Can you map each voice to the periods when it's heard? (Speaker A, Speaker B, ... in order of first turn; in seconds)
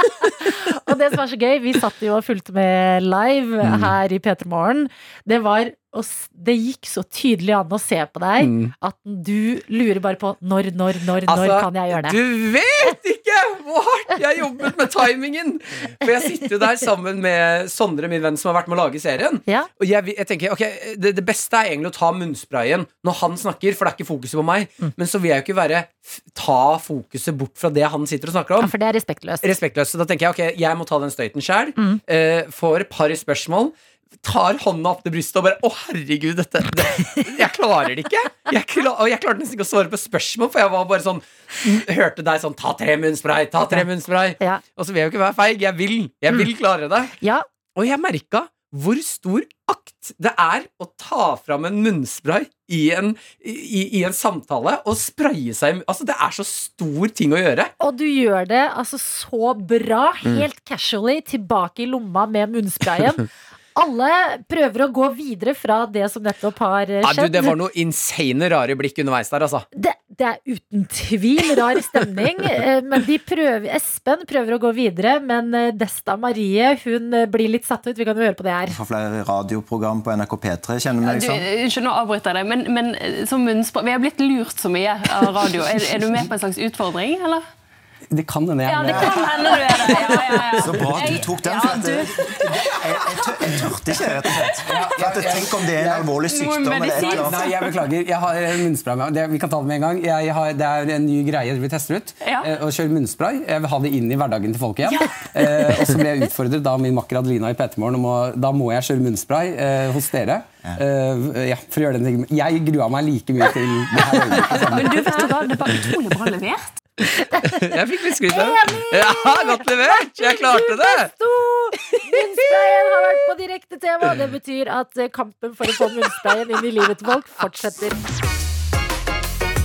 Speaker A: 0.2-12.2, 28.6-29.5, 47.2-47.5, 57.8-63.2, 63.8-67.5, 69.7-78.8, 114.8-115.3, 118.3-128.0
Speaker B: 8.4-8.7, 11.3-28.7, 29.4-47.1, 47.8-57.7, 67.0-69.7, 117.4-121.1
Speaker C: 78.7-81.5, 88.8-89.8, 90.6-97.5
Speaker D: 81.0-87.5, 88.7-92.6, 96.1-97.6, 102.2-102.5, 104.9-105.3, 114.4-116.8
Speaker E: 88.1-89.3, 94.6-96.1, 97.0-115.2